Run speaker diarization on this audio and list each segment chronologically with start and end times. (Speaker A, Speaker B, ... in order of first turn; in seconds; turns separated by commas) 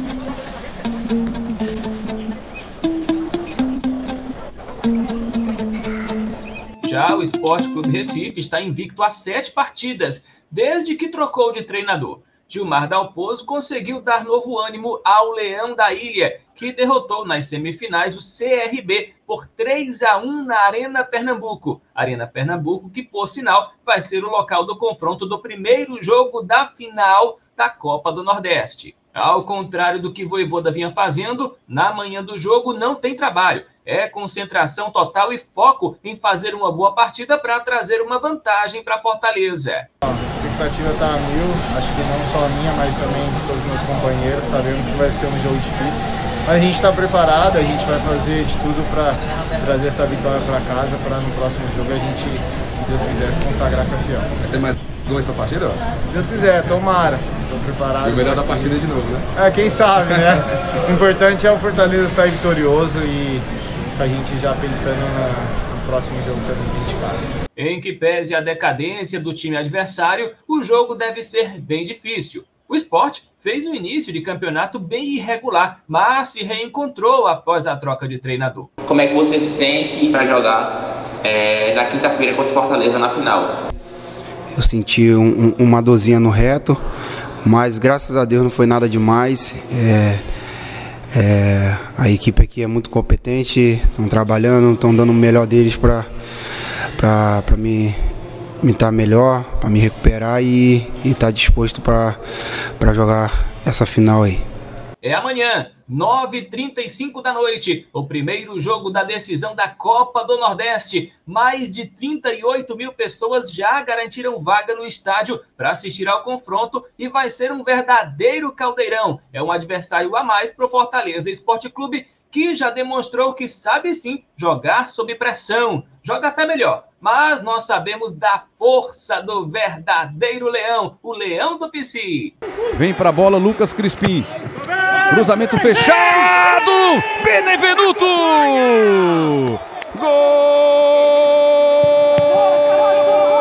Speaker A: 6.8-39.9, Speaker B: 40.0-54.3, Speaker C: 54.4-55.9, Speaker B: 56.0-63.5, Speaker C: 58.0-59.2, Speaker B: 64.0-67.3, Speaker A: 67.6-78.7, Speaker D: 78.9-83.5, Speaker E: 84.5-86.8, Speaker E: 87.4-90.2, Speaker E: 91.1-96.0, Speaker E: 97.0-98.0, Speaker E: 98.6-102.2, Speaker E: 102.8-104.4, Speaker A: 105.0-132.3, Speaker F: 132.7-134.3, Speaker F: 135.1-141.4